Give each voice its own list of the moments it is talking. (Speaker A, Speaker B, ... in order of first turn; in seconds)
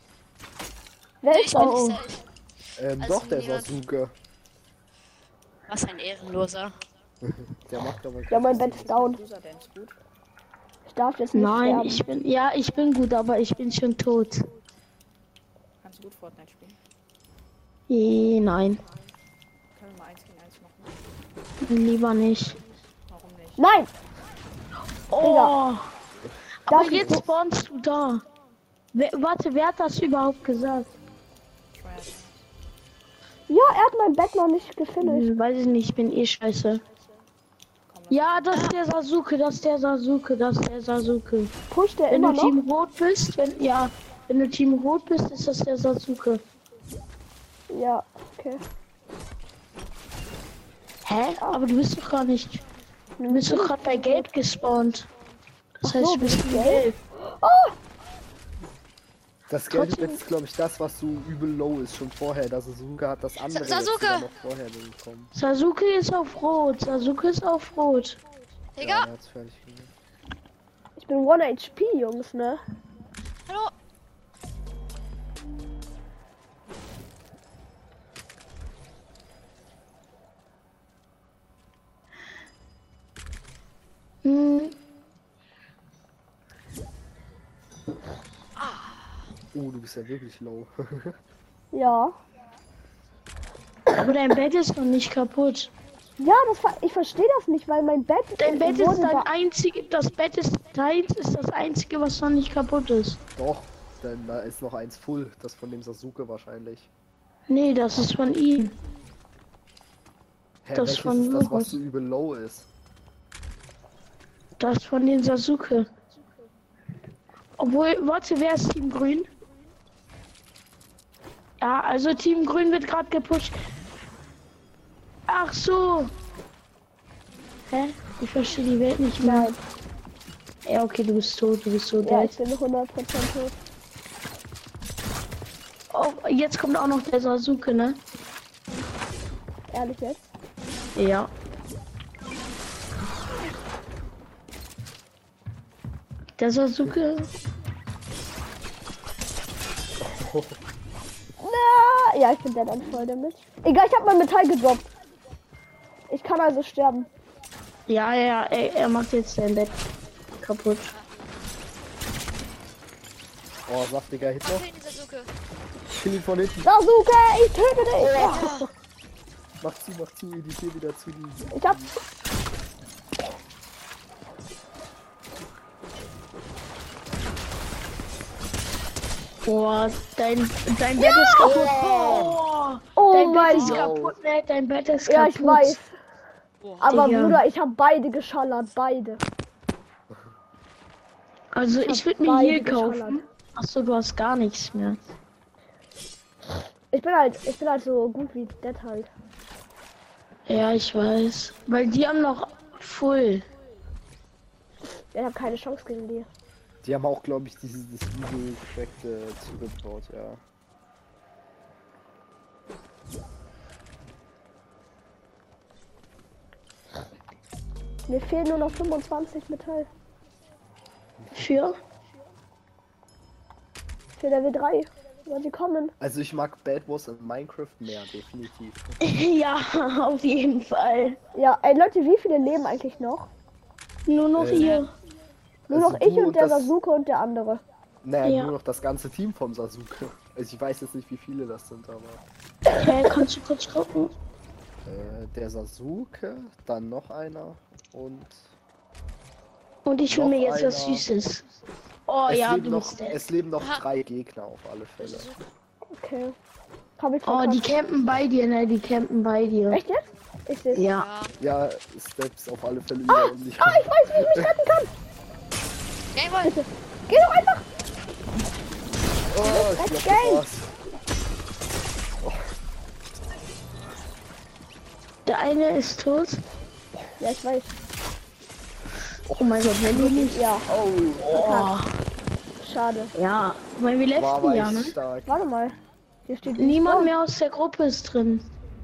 Speaker A: 1.2-1.9, 8.3-9.2, 10.8-12.1, 23.6-23.9, 25.2-25.6, 26.7-27.2, 33.5-35.3, 41.7-42.6, 47.7-48.6, 53.2-54.3, 55.8-57.8, 71.0-72.6, 91.7-92.2, 96.2-99.3, 129.2-129.6, 132.0-133.6, 139.7-140.2, 151.4-154.9, 156.1-157.1, 166.6-168.5, 171.5-171.8, 181.0-181.6, 182.9-183.9, 185.1-185.9, 186.8-189.2, 191.8-193.2, 196.9-199.1, 205.1-206.3, 218.1-219.9, 224.2-225.9, 231.3-233.3, 235.7-237.6, 255.9-256.4, 257.0-257.8, 259.7-260.9, 263.1-264.9, 266.4-267.6, 269.4-270.4, 277.2-277.8, 280.3-280.6, 281.3-281.7, 282.6-283.1, 285.2-287.1
Speaker B: 1.3-2.2, 3.0-3.8, 5.7-6.8, 38.5-38.8, 255.0-255.4
Speaker C: 1.5-2.0, 11.3-14.5, 17.9-18.8, 21.6-22.6, 25.1-25.9, 26.7-28.2, 28.9-30.9, 35.0-36.8, 38.1-41.5, 42.1-46.4, 51.0-52.6, 53.3-55.1, 55.8-57.0, 59.7-60.2, 65.3-68.2, 84.2-84.8, 93.9-95.7, 98.4-103.2, 107.5-108.8, 110.7-111.8, 114.6-115.9, 117.6-119.3, 121.6-123.6, 125.3-126.1, 127.7-129.5, 130.6-132.3, 135.9-138.0, 140.9-141.3, 146.4-147.3, 157.9-159.8, 160.3-160.9, 168.0-168.7, 179.4-185.8, 186.8-187.4, 191.5-195.0, 200.5-203.5, 221.3-221.8, 229.0-231.2, 234.1-234.9, 238.2-238.5, 242.7-244.1, 249.8-251.4, 252.1-253.2, 257.2-259.8, 260.7-261.1, 275.2-276.4, 279.3-280.5, 281.2-281.9, 283.1-284.9, 286.6-288.5
Speaker D: 2.8-4.1, 7.2-9.1, 59.5-65.3, 68.8-69.9, 89.5-91.2, 103.3-106.9, 110.6-112.7, 150.1-150.6, 163.7-164.7, 165.9-166.7, 169.6-171.9, 181.5-182.4, 183.6-184.2, 206.8-210.4, 221.2-221.5, 226.0-229.0, 234.3-234.8, 235.7-236.7, 238.0-242.2, 244.8-248.5, 250.1-251.1, 252.3-255.3, 261.4-264.5, 269.3-270.7, 279.3-281.5, 284.1-285.4
Speaker E: 8.4-9.9, 15.8-16.8, 19.7-21.0, 23.1-23.7, 31.7-32.5, 37.9-38.8
Speaker F: 63.5-64.3, 68.8-69.1, 164.4-165.3, 168.3-168.7, 183.5-183.8, 186.6-187.1, 266.1-266.5